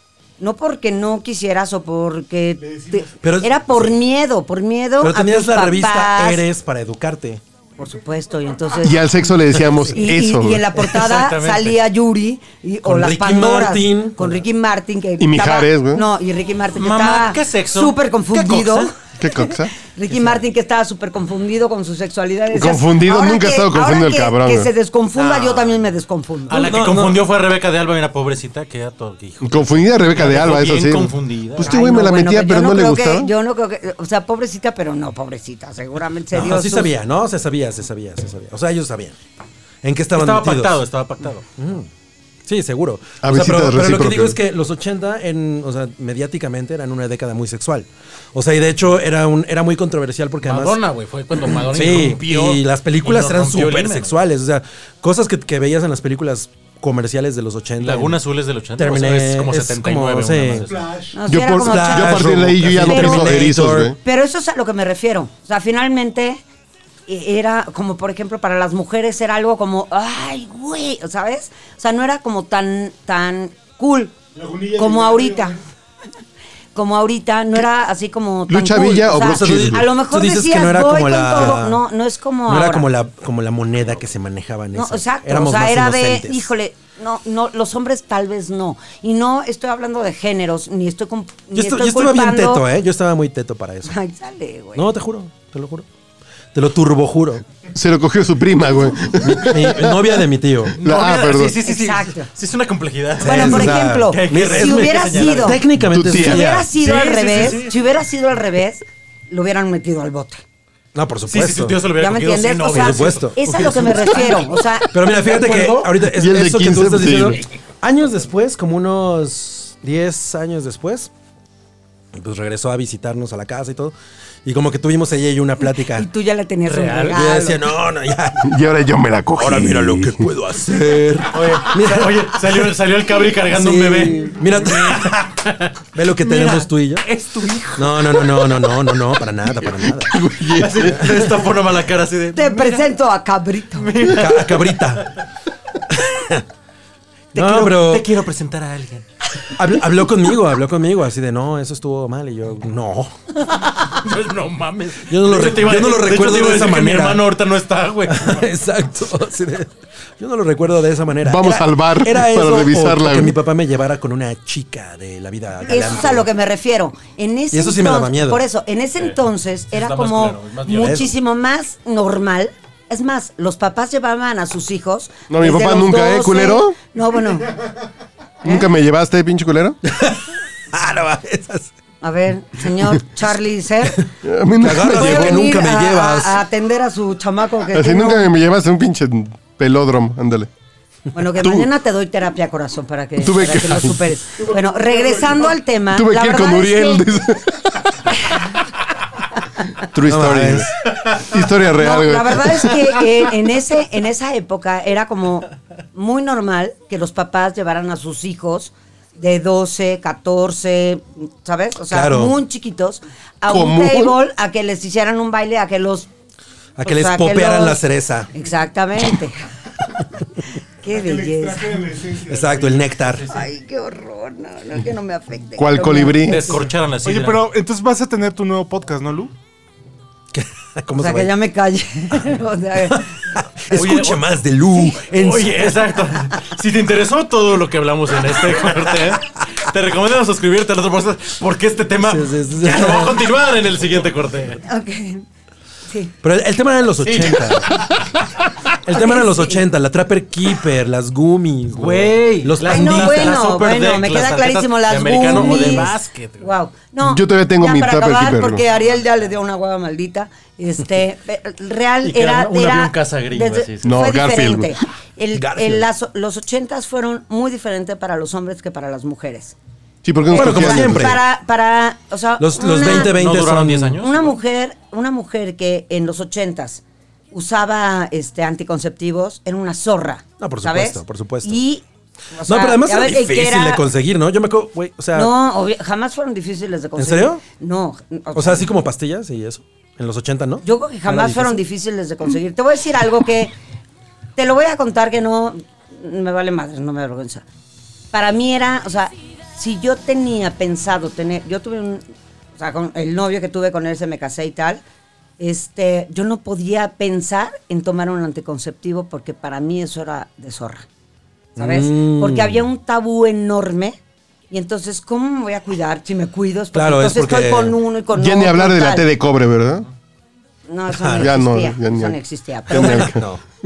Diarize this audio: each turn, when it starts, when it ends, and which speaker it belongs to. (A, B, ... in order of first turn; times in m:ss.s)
0:00.4-0:06.4 A
0:02.6-0:03.1 B
0:03.2-0:04.0 C
0:05.0-0:07.4 C
0:07.8-0:09.1 A
0:08.8-0:10.7 D
0:09.9-0:26.8 A
0:10.9-0:11.8 E
0:12.8-0:14.4 C
0:15.2-0:16.0 D
0:16.8-0:18.9 E
0:19.2-0:19.7 D
0:22.5-0:24.7 D
0:25.2-0:25.9 E
0:26.5-0:31.8 E
0:26.5-0:27.3 C
0:29.4-0:33.3 D
0:31.6-0:36.9 A
0:36.3-0:39.2 C
0:39.8-0:40.8 C
0:40.1-0:41.5 E
0:41.6-0:41.9 C
0:42.5-0:50.8 C
0:43.2-0:44.4 D
0:50.4-0:54.2 E
0:51.5-0:58.2 C
0:57.8-1:00.9 E
0:58.8-1:00.7 C
1:00.7-1:01.2 B
1:01.1-1:06.4 A
1:01.3-1:04.0 D
1:01.4-1:04.0 C
1:07.1-1:14.2 A
1:14.3-1:15.6 B
1:14.7-1:15.6 A
1:16.8-1:22.9 A
1:18.5-1:19.9 D
1:19.2-1:21.8 C
1:22.4-1:26.5 C
1:24.7-1:32.7 A
1:31.5-1:34.0 C
1:33.9-1:34.9 A
1:34.8-1:35.9 C
1:36.5-1:37.4 C
1:37.7-1:41.6 D
1:39.2-1:40.8 C
1:40.8-1:45.6 E
1:41.6-1:42.3 A
1:43.2-1:46.7 C
1:43.2-1:45.6 A
1:45.8-1:46.5 D
1:46.2-1:50.4 A
1:46.8-1:47.7 E
1:50.9-1:51.8 C
1:51.3-1:54.4 E
1:52.0-1:54.9 A
1:52.6-1:54.0 C
1:54.9-2:01.1 C
1:55.2-1:55.9 E
1:56.0-1:57.4 D
2:02.1-2:06.1 C
2:05.7-2:07.6 A
2:06.7-2:07.2 E
2:07.1-2:08.6 C
2:08.4-2:10.3 D
2:09.4-2:12.7 C
2:11.3-2:18.8 E
2:13.5-2:15.3 C
2:15.9-2:17.1 C
2:17.8-2:20.2 C
2:20.1-2:21.2 D
2:20.4-2:22.9 E
2:20.7-2:21.4 C
2:22.3-2:23.9 A
2:23.8-2:25.2 E
2:24.0-2:25.2 C
2:25.9-2:26.4 C
2:27.3-2:29.1 E
2:27.3-2:28.1 C
2:29.6-2:33.2 C
2:33.5-2:38.4 E
2:35.0-2:37.4 C
2:38.1-2:46.3 C
2:41.2-2:43.4 D
2:45.7-2:57.6 A
2:47.5-2:48.4 C
2:49.7-2:51.1 E
2:50.7-2:51.1 C
2:55.3-2:56.8 D
2:58.4-2:59.8 D
2:59.8-3:01.7 C
3:02.0-3:04.0 A
3:04.2-3:05.5 D
3:04.6-3:06.4 C
3:04.8-3:08.3 A
3:07.7-3:10.5 D
3:11.1-3:17.0 A
3:11.4-3:11.7 D
3:13.2-3:14.1 D
3:14.8-3:15.4 B
3:15.9-3:18.3 D
3:19.8-3:22.9 D
3:20.0-3:20.7 C
3:21.8-3:36.1 A
3:31.9-3:32.4 C
3:33.5-3:34.1 D
3:36.8-3:38.3 C
3:36.8-3:39.4 A
3:40.8-3:41.8 A
3:40.9-3:43.3 B
3:42.3-3:43.3 C
3:43.3-3:46.6 A
3:45.6-3:46.6 D
3:46.2-3:47.5 E
3:47.0-3:49.3 B
3:50.3-3:51.3 C
3:50.9-3:53.2 A
3:52.8-3:56.0 C
3:53.7-3:54.2 E
3:55.0-4:04.6 E
4:02.0-4:03.3 C
4:04.6-4:05.2 A
4:06.2-4:08.0 C
4:07.0-4:08.0 E
4:08.7-4:13.4 C
4:08.9-4:09.6 A
4:11.8-4:16.5 E
4:12.6-4:29.6 A
4:15.3-4:15.8 C
4:17.0-4:18.6 D
4:22.0-4:24.0 E
4:23.8-4:24.7 D
4:25.3-4:25.9 C
4:30.0-4:31.2 D
4:30.2-4:33.2 A
4:30.3-4:31.2 C
4:32.4-4:34.0 C
4:32.8-4:34.3 E
4:34.0-4:43.8 A
4:40.4-4:41.6 C
4:42.5-4:45.3 C
4:45.1-4:48.7 A
4:47.0-4:47.4 C
4:48.3-4:51.6 C
4:50.6-4:53.5 A
4:54.4-4:57.4 A
4:58.1-5:02.0 A
5:02.6-5:04.8 A
5:05.4-5:10.9 A
5:11.6-5:12.7 C
5:11.6-5:14.0 A
5:14.5-5:19.1 A
5:16.7-5:17.8 C
5:18.1-5:19.9 D
5:20.7-5:23.1 A
5:20.9-5:21.3 C
5:21.2-5:23.3 D
5:22.7-5:23.4 C